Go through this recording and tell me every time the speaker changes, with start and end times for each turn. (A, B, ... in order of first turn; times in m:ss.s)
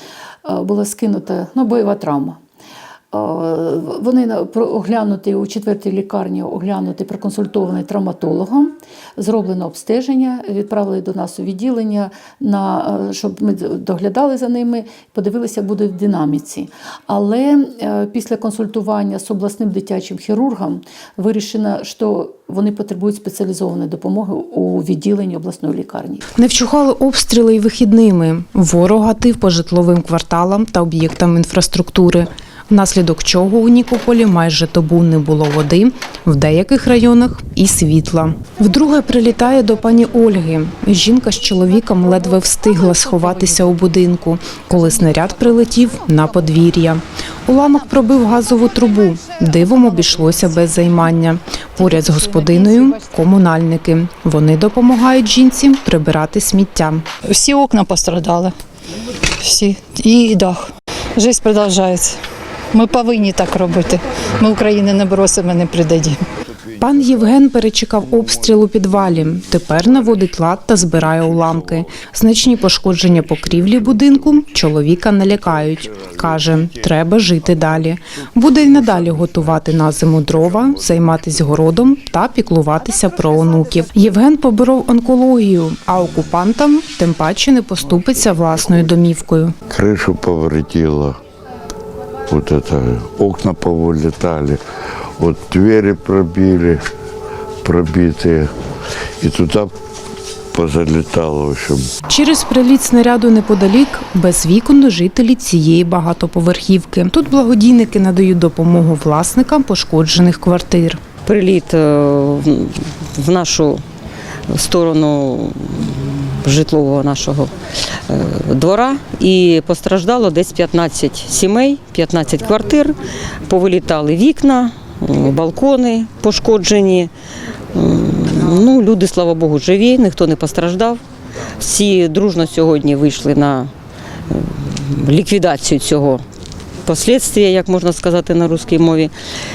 0:00.4-0:02.4 A
0:03.1-0:26.2 A
0:26.4-0:57.1 B
0:51.8-0:52.9 C
0:57.2-0:58.5 C
0:59.3-1:02.2 C
1:02.7-1:06.2 C
1:06.7-1:29.6 B
1:29.7-1:31.2 D
1:32.3-1:34.6 D
1:35.2-1:36.8 D
1:37.6-1:38.5 D
1:39.2-1:39.7 D
1:40.5-1:41.9 D
1:42.0-1:51.0 B
1:51.2-1:53.8 E
1:54.5-2:07.1 E
2:07.7-2:11.0 E
2:11.6-2:13.7 E
2:14.3-2:16.2 E
2:16.8-2:19.1 E